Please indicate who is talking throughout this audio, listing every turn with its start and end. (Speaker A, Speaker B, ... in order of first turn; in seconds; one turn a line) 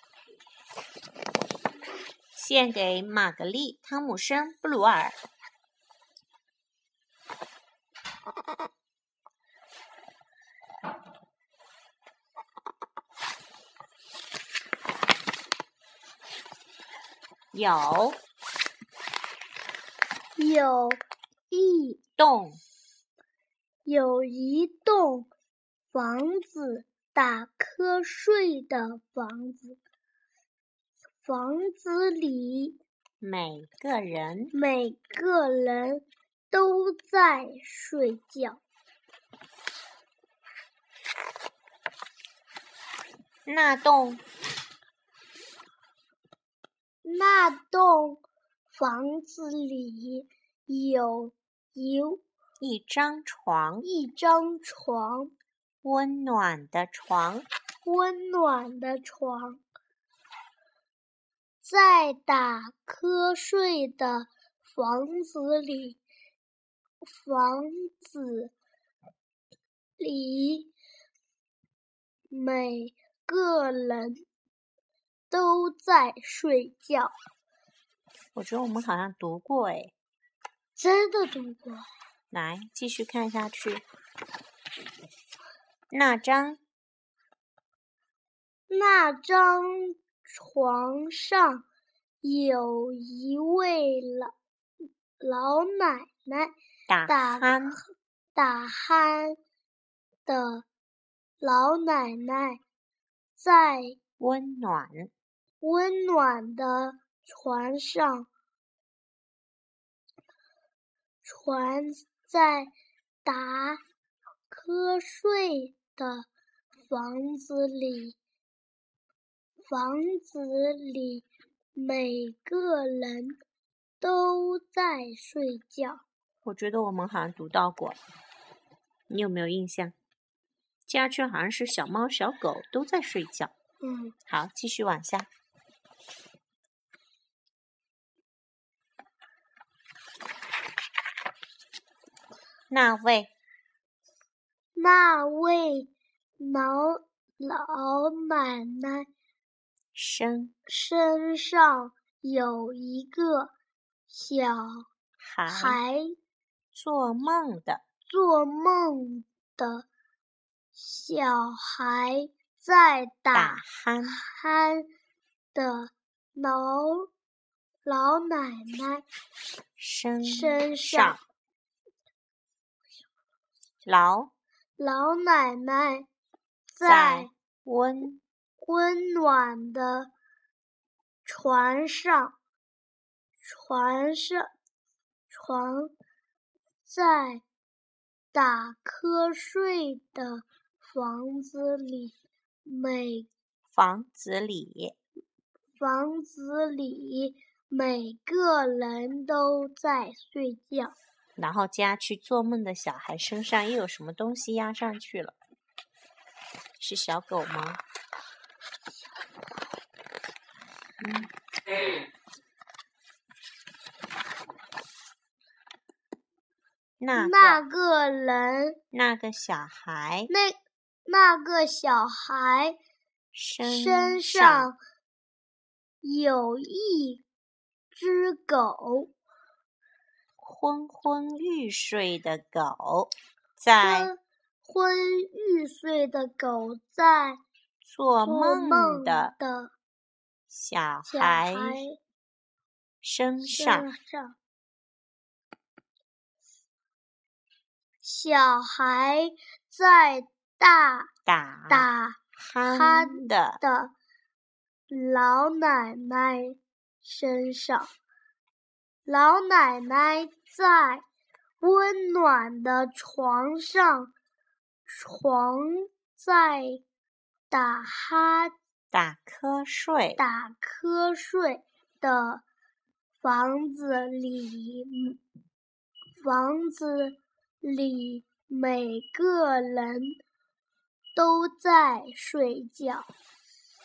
Speaker A: 2.3-5.2
Speaker A: 17.5-18.2
Speaker B: 20.4-22.0
Speaker A: 22.2-22.6
Speaker B: 23.8-25.3
Speaker B: 25.9-29.8
Speaker B: 31.2-32.8
Speaker A: 33.2-34.5
Speaker B: 34.5-38.6
Speaker A: 43.5-44.2
Speaker B: 47.0-52.2
Speaker A: 52.6-53.9
Speaker B: 53.8-55.3
Speaker A: 55.8-57.5
Speaker B: 57.8-59.6
Speaker B: 61.6-66.0
Speaker B: 67.0-68.5
Speaker B: 70.0-70.7
Speaker B: 72.3-74.2
Speaker B: 75.3-77.1
Speaker A: 78.3-79.9
Speaker B: 80.8-81.9
Speaker A: 82.3-83.8
Speaker A: 85.9-86.6
Speaker B: 88.7-91.6
Speaker B: 92.2-94.3
Speaker B: 95.2-96.5
Speaker A: 96.9-97.8
Speaker B: 97.1-99.4
Speaker B: 100.2-100.7
Speaker B: 101.4-102.6
Speaker B: 103.3-104.0
Speaker A: 104.2-105.1
Speaker B: 105.6-108.3
Speaker B: 111.2-112.7
Speaker B: 113.2-113.8
Speaker B: 114.5-116.3
Speaker B: 116.9-118.2
Speaker B: 119.7-123.4
Speaker B: 124.0-126.0
Speaker A: 126.4-128.0
Speaker A: 129.1-129.9
Speaker A: 130.9-133.5
Speaker B: 133.8-134.1
Speaker A: 134.3-135.3
Speaker A: 142.7-143.3
Speaker B: 144.8-149.1
Speaker A: 149.9-150.5
Speaker B: 150.7-153.5
Speaker B: 154.1-154.9
Speaker A: 155.2-155.8
Speaker B: 155.5-156.1
Speaker A: 156.7-157.8
Speaker B: 158.1-159.9
Speaker B: 160.7-164.8
Speaker A: 163.3-164.2
Speaker B: 165.5-167.1
Speaker B: 167.8-169.0
Speaker A: 169.8-171.2
Speaker B: 170.2-171.2
Speaker A: 173.8-174.3
Speaker B: 174.8-176.1
Speaker B: 176.7-177.3
Speaker A: 176.8-178.2
Speaker B: 178.6-180.1
Speaker B: 181.2-182.3
Speaker B: 183.4-184.5
Speaker B: 185.3-185.9
Speaker B: 186.8-187.4
Speaker B: 188.3-193.3
Speaker A: 193.7-194.9
Speaker B: 195.8-200.9
Speaker A: 201.4-205.3
Speaker A: 206.8-207.8
Speaker A: 211.0-211.3
Speaker A: 217.0-217.6
Speaker B: 217.1-218.8
Speaker A: 218.9-220.3
Speaker B: 220.3-222.8
Speaker A: 223.3-224.7
Speaker B: 223.6-224.8
Speaker B: 226.0-227.2
Speaker B: 227.9-229.1
Speaker A: 230.4-234.1
Speaker B: 233.8-237.4
Speaker A: 237.8-239.3
Speaker B: 238.2-239.7
Speaker A: 240.5-241.8
Speaker B: 241.1-241.9
Speaker A: 243.0-243.9
Speaker B: 243.4-244.3
Speaker B: 248.0-251.1
Speaker A: 251.2-253.6
Speaker B: 251.7-253.9
Speaker B: 254.9-257.9
Speaker B: 259.1-261.0
Speaker B: 261.6-264.1
Speaker B: 264.9-266.8
Speaker B: 267.5-268.5
Speaker A: 268.9-270.2
Speaker B: 270.2-272.4
Speaker B: 273.2-275.2
Speaker B: 276.2-280.2
Speaker B: 281.1-283.1